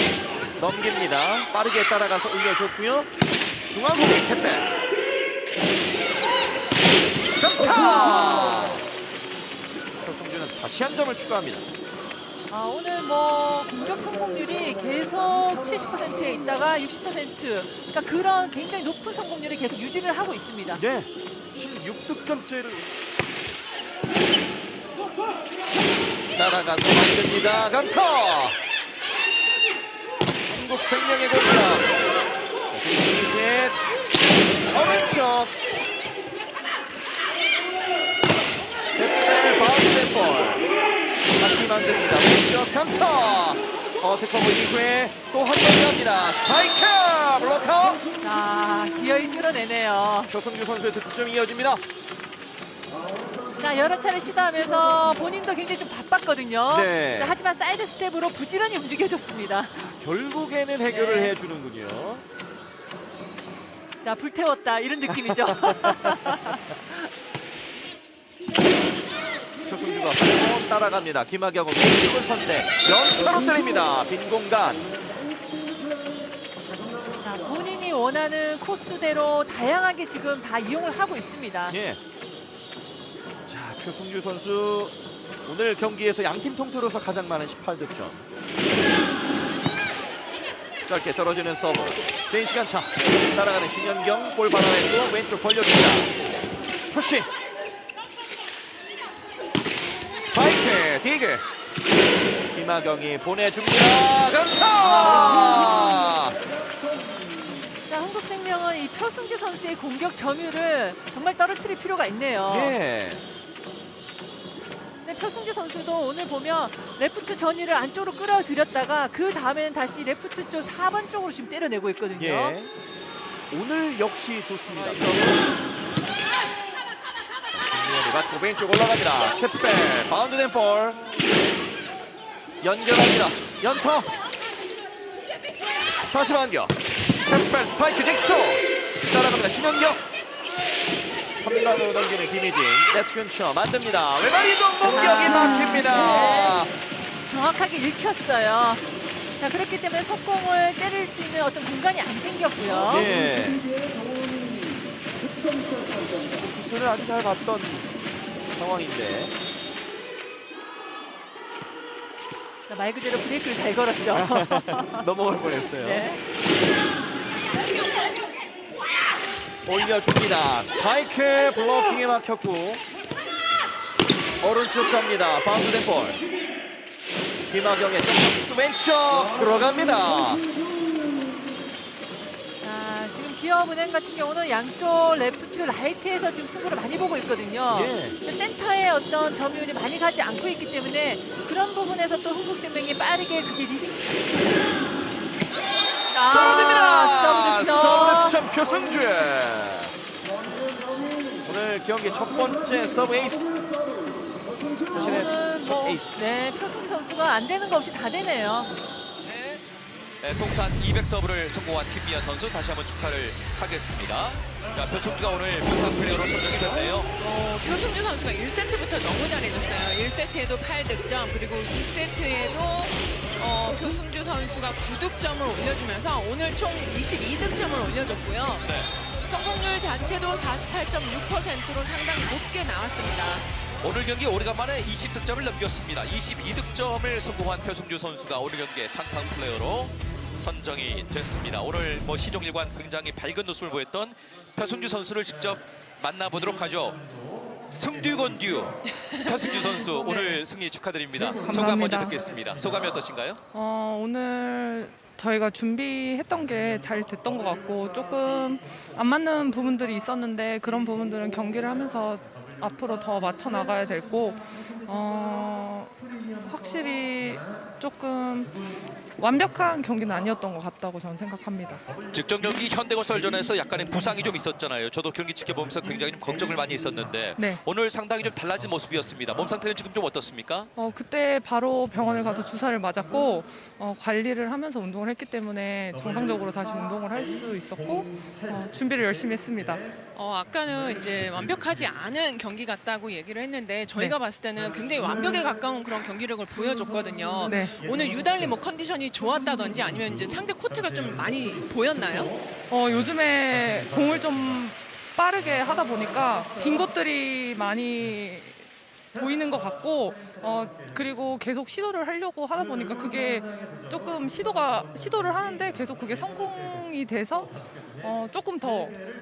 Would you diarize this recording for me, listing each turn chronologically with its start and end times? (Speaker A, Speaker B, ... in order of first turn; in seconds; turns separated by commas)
Speaker A: 0.6-3.1, Speaker A: 3.7-4.7, Speaker A: 7.4-8.8, Speaker A: 10.0-11.7, Speaker B: 12.5-20.8, Speaker A: 20.8-22.9, Speaker A: 26.3-28.6, Speaker A: 30.5-31.9, Speaker A: 32.7-33.8, Speaker A: 34.7-35.5, Speaker A: 38.9-40.7, Speaker A: 41.3-48.0, Speaker B: 48.2-50.3, Speaker A: 50.3-51.8, Speaker B: 53.5-59.8, Speaker A: 56.7-57.4, Speaker A: 59.8-62.2, Speaker B: 60.8-61.4, Speaker B: 64.0-67.1, Speaker A: 65.3-66.2, Speaker A: 69.7-74.9, Speaker B: 77.2-81.8, Speaker A: 81.7-82.0, Speaker A: 83.5-88.2, Speaker A: 90.8-96.1, Speaker A: 96.9-97.3, Speaker A: 100.2-101.4, Speaker A: 102.5-106.3, Speaker B: 104.8-106.0, Speaker B: 107.9-112.7, Speaker A: 112.5-113.2, Speaker B: 115.0-122.6, Speaker A: 122.2-122.7, Speaker A: 123.5-125.4, Speaker A: 127.5-131.0, Speaker A: 132.6-134.1, Speaker A: 136.1-140.0, Speaker A: 141.3-146.7, Speaker B: 144.8-146.6, Speaker B: 147.2-153.2, Speaker A: 152.9-153.6, Speaker A: 156.1-157.9, Speaker A: 158.5-159.3, Speaker B: 162.7-166.2, Speaker A: 164.1-166.1, Speaker A: 169.7-172.8, Speaker A: 174.4-176.2, Speaker A: 177.5-180.4, Speaker B: 182.6-194.3, Speaker A: 187.7-188.2, Speaker B: 196.1-198.4, Speaker A: 196.3-199.9, Speaker A: 201.4-203.5, Speaker B: 204.9-208.7, Speaker A: 204.9-206.2, Speaker C: 209.2-209.6, Speaker C: 210.2-217.1, Speaker D: 217.2-228.8, Speaker D: 229.3-233.5, Speaker C: 233.8-247.0, Speaker C: 247.7-253.4, Speaker D: 248.9-250.4, Speaker E: 251.3-252.1, Speaker E: 253.5-265.9, Speaker E: 266.4-268.6, Speaker E: 269.2-271.8, Speaker C: 272.1-280.7, Speaker E: 277.4-277.6, Speaker E: 280.8-289.9, Speaker D: 290.1-302.4, Speaker E: 297.4-297.8, Speaker E: 302.7-319.0